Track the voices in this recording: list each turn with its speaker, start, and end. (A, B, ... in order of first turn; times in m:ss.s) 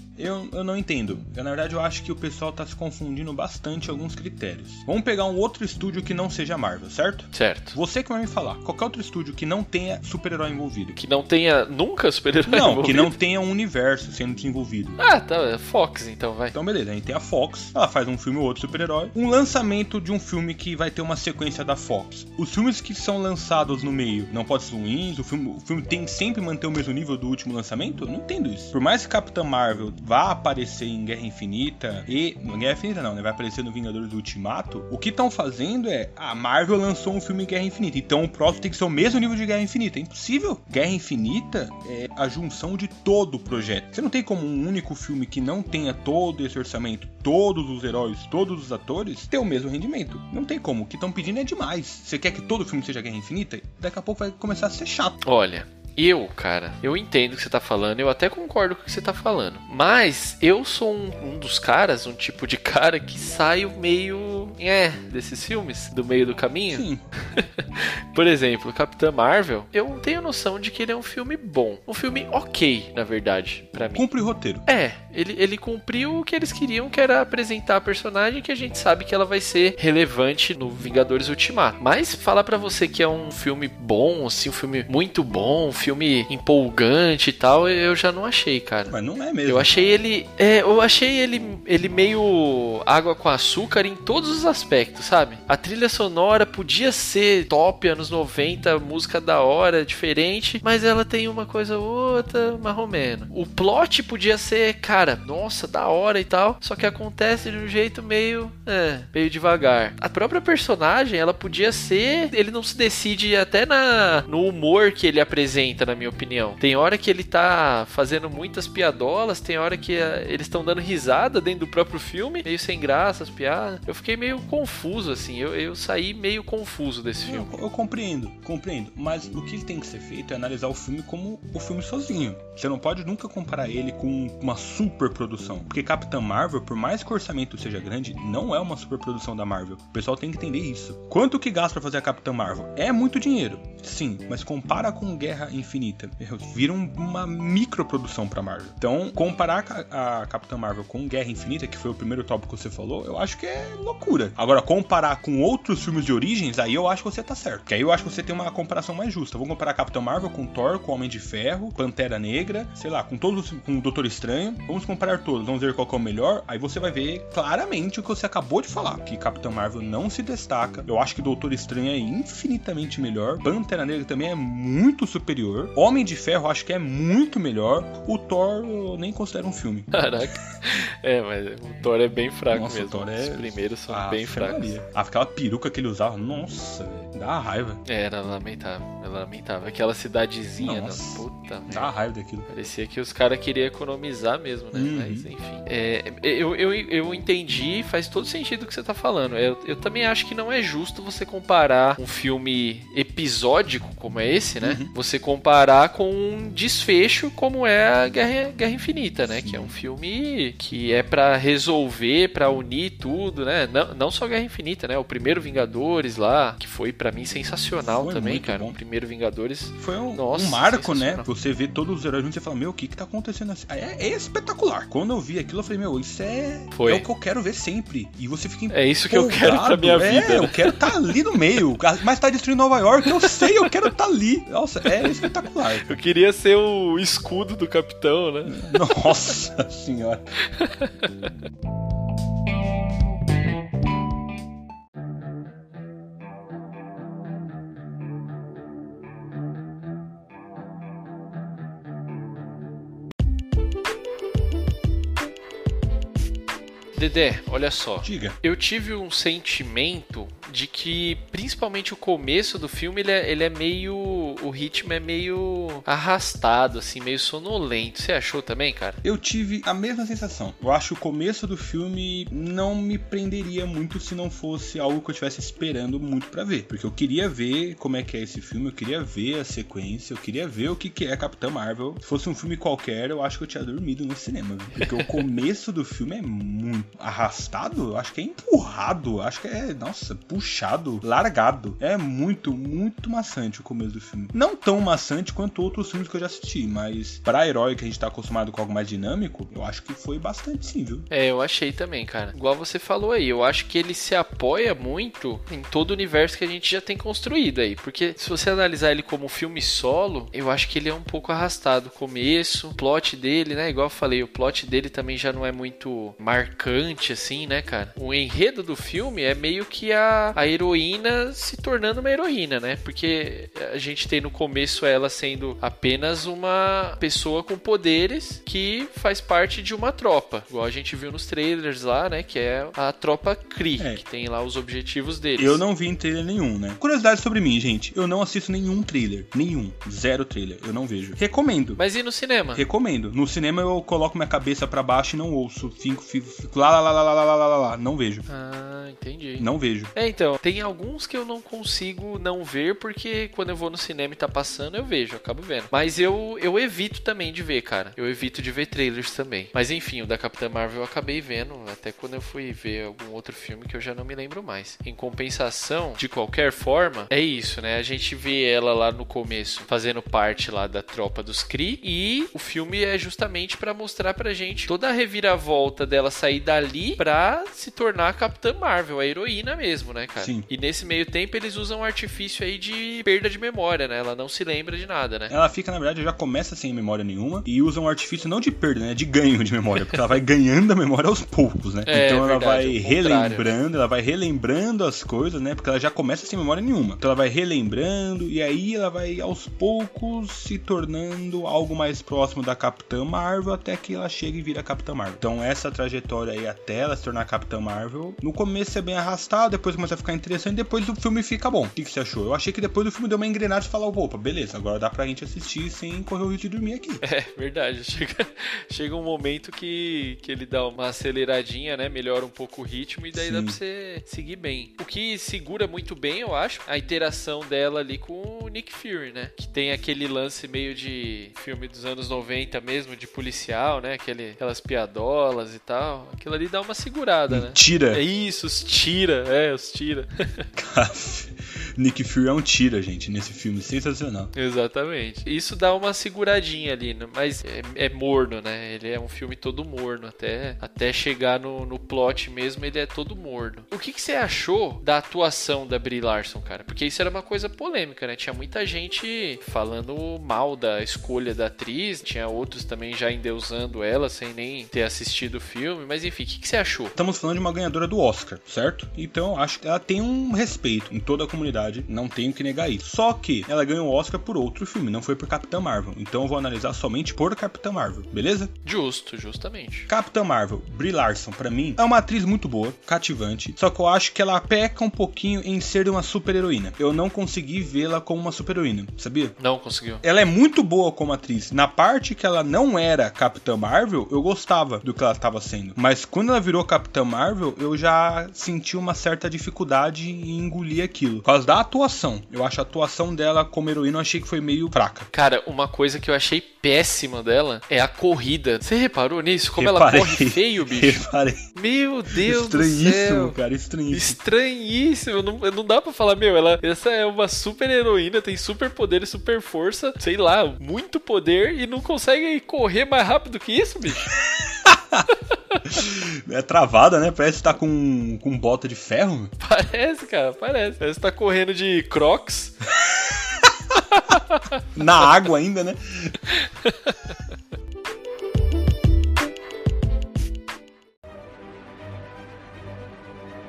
0:00.2-0:11.0 A
0:07.3-0:07.8 B
0:11.0-0:13.1 B
0:12.5-0:15.0 A
0:15.0-0:16.6 B
0:16.5-0:55.2 A
0:55.2-1:14.0 B
1:06.7-1:07.0 A
1:13.9-1:14.6 A
1:14.6-1:28.9 B
1:28.9-1:29.7 A
1:29.4-2:07.5 B
2:07.3-2:59.9 A
2:59.9-3:04.8 B
3:02.5-3:07.8 A
3:07.8-3:11.9 B
3:10.6-3:12.5 A
3:12.5-3:41.3 B
3:14.7-3:15.3 A
3:24.6-3:24.9 A
3:29.2-3:29.7 A
3:37.8-3:38.8 A
3:39.8-3:55.9 A
3:46.7-3:47.0 B
3:48.7-3:51.0 B
3:53.0-3:53.8 B
3:55.0-3:59.1 B
3:58.4-4:00.3 A
4:00.4-4:01.3 B
4:17.0-4:29.0 B
4:18.0-4:18.4 A
4:29.0-5:01.1 A
4:44.8-4:45.1 B
5:01.1-5:35.6 B
5:35.4-5:41.8 A
5:41.8-5:42.6 B
5:42.5-5:48.2 A
5:48.3-6:25.3 B
5:49.4-5:49.9 A
6:20.2-6:20.4 A
6:25.3-6:57.0 A
6:31.9-6:33.5 B
6:57.0-7:20.5 B
7:03.1-7:03.6 A
7:17.3-7:18.0 A
7:20.6-7:24.3 A
7:24.3-7:46.9 B
7:47.0-7:58.5 A
7:58.6-7:59.9 B
7:59.9-8:09.3 A
8:09.4-8:10.0 B
8:10.0-8:25.1 A
8:25.1-8:31.0 B
8:29.6-8:31.4 A
8:31.5-8:33.4 B
8:32.1-8:34.2 A
8:33.9-8:44.1 B
8:44.1-8:45.1 A
8:45.3-8:45.6 B
8:45.6-8:49.3 A
8:49.4-8:52.6 B
8:52.8-8:53.8 A
8:53.9-8:54.6 B
8:54.7-8:56.2 A
8:56.3-8:57.1 B